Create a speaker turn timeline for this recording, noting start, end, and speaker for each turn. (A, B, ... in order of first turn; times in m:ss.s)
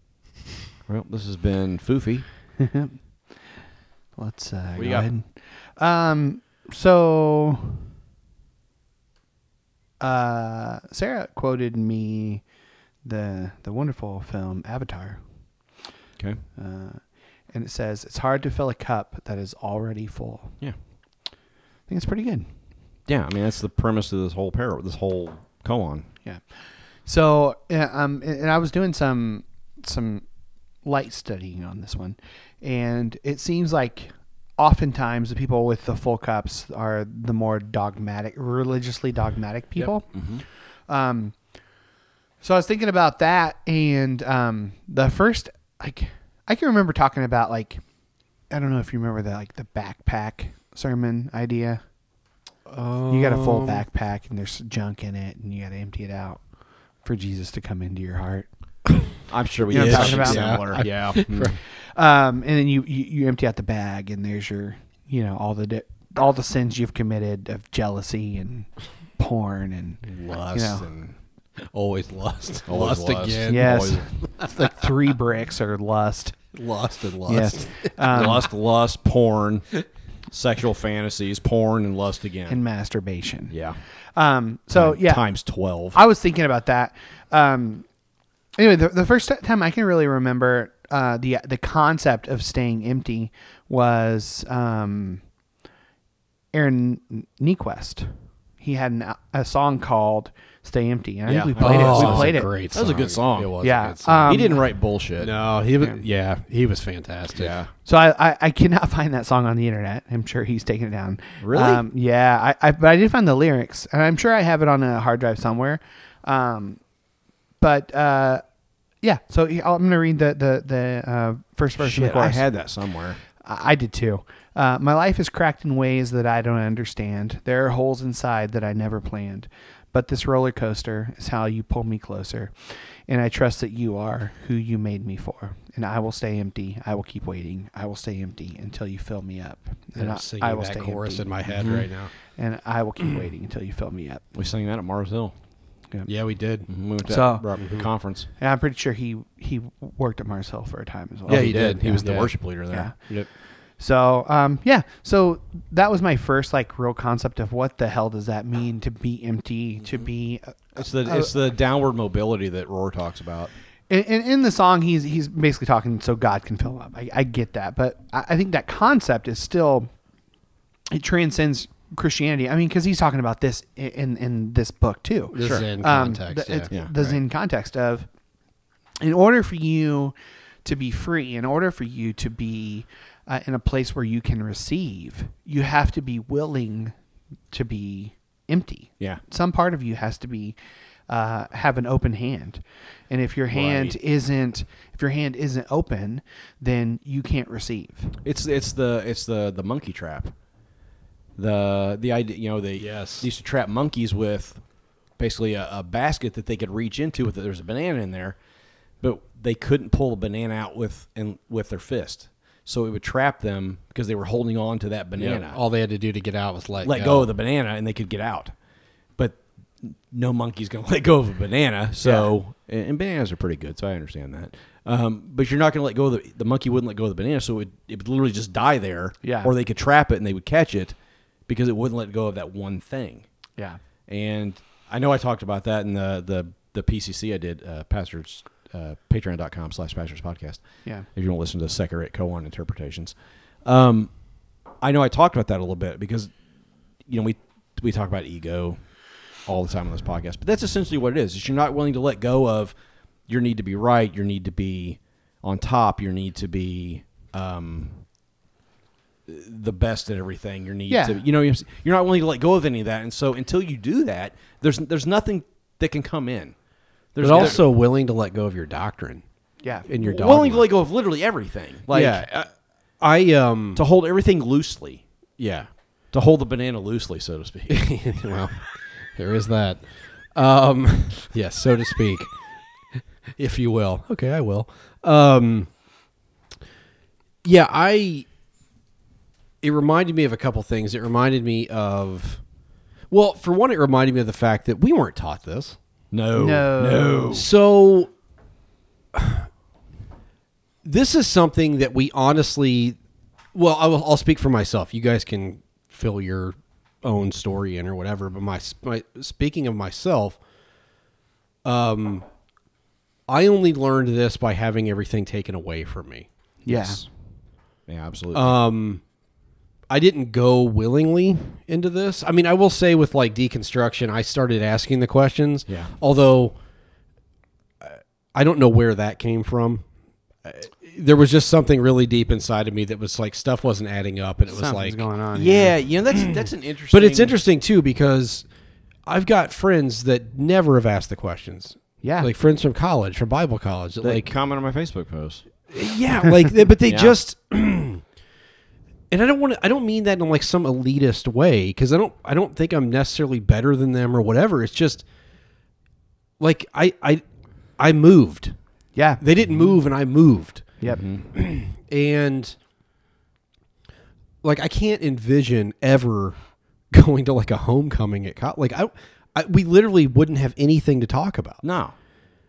0:00.9-0:02.3 A
0:02.6-0:03.6 B
0:04.2-0:07.8 B
0:04.8-0:05.1 A
0:10.0-0:12.4 B
0:13.0-0:15.2 B
0:16.6-0:20.6 B
0:21.9-0:22.5 B
0:23.1-0:26.1 A
0:26.2-0:30.2 B
0:30.8-0:41.4 B
0:39.8-0:40.4 A
0:42.4-0:47.8 B
0:48.5-0:51.8 B
0:52.7-0:53.8 C
0:53.1-0:56.4 B
0:57.0-0:58.5 B
0:59.3-1:01.6 A
0:59.7-1:00.8 B
0:59.7-1:01.6 C
1:01.6-1:10.8 B
1:10.1-1:10.7 C
1:10.3-1:11.2 A
1:11.6-1:14.9 C
1:12.7-1:14.0 A
1:13.5-1:16.4 B
1:16.5-1:18.5 C
1:17.3-1:18.5 B
1:18.1-1:22.6 A
1:22.5-1:23.6 B
1:23.5-1:23.8 A
1:24.2-1:25.3 B
1:24.7-1:26.0 A
1:25.9-1:27.9 B
1:28.6-1:35.2 B
1:36.5-1:42.5 B
1:41.3-1:43.6 A
1:41.6-1:44.7 C
1:43.6-1:44.6 B
1:44.2-1:45.3 A
1:45.2-1:47.6 C
1:47.4-1:47.7 A
1:47.8-1:56.8 B
1:51.4-1:51.8 A
1:57.6-1:58.4 B
1:59.0-2:02.4 B
2:01.8-2:03.2 A
2:03.4-2:21.3 B
2:20.0-2:22.1 C
2:21.6-2:21.9 A
2:22.4-2:24.2 B
2:24.3-2:25.4 A
2:26.1-2:26.7 C
2:26.7-2:28.3 A
2:27.1-2:27.4 B
2:27.6-2:27.9 C
2:28.4-2:33.0 B
2:31.3-2:32.5 C
2:31.3-2:33.0 A
2:33.8-2:41.4 B
2:40.8-2:43.5 A
2:43.9-2:49.9 B
2:50.9-2:58.1 B
2:55.3-2:57.2 C
2:55.4-2:55.6 A
2:56.7-2:57.0 A
2:59.0-3:07.0 B
3:07.5-3:10.6 B
3:11.1-3:18.1 B
3:13.5-3:14.0 A
3:18.2-3:20.3 A
3:21.4-3:24.6 A
3:22.8-3:23.3 C
3:25.2-3:28.4 A
3:29.0-3:35.6 A
3:35.2-3:37.3 C
3:36.8-3:38.5 A
3:39.2-3:53.3 A
3:42.0-3:42.3 B
3:49.2-3:49.5 B
3:54.1-4:04.1 A
4:04.8-4:06.3 A
4:07.1-4:08.8 A
4:09.4-4:12.8 A
4:13.3-4:18.0 A
4:19.3-4:26.6 A
4:20.9-4:21.2 B
4:27.1-4:27.7 A
4:27.2-4:29.2 C
4:29.6-4:29.9 B
4:29.8-4:30.7 C
4:30.0-4:32.2 A
4:31.9-4:33.8 C
4:33.8-4:35.0 A
4:35.4-4:35.7 C
4:36.1-4:37.9 A
4:37.7-4:42.4 C
4:43.4-4:45.7 C
4:47.4-4:48.3 C
4:49.6-4:52.4 C
4:53.1-4:55.8 C
4:56.1-4:57.5 A
4:56.3-4:57.4 B
4:57.3-4:58.1 C
4:59.1-4:59.5 C
5:00.8-5:03.0 C
5:03.5-5:10.4 C
5:11.6-5:12.3 C
5:13.3-5:16.3 C
5:16.6-5:17.0 B
5:16.7-5:17.1 A
5:17.9-5:18.6 A
5:18.3-5:19.0 C
5:19.9-5:26.6 C
5:27.8-5:29.8 C
5:30.4-5:35.0 C
5:34.5-5:35.8 B
5:35.3-5:37.4 A
5:36.1-5:38.5 C
5:39.1-5:44.3 C
5:42.0-5:42.3 B
5:44.0-5:45.5 A
5:45.7-5:48.0 C
5:46.9-5:47.2 A
5:49.1-5:55.0 C
5:56.4-5:57.2 C
5:57.8-5:58.6 C
5:59.0-5:59.2 B
5:59.2-6:00.7 C
6:00.9-6:01.2 A
6:01.3-6:02.6 C
6:04.4-6:06.4 C
6:06.9-6:11.6 C
6:11.6-6:12.0 A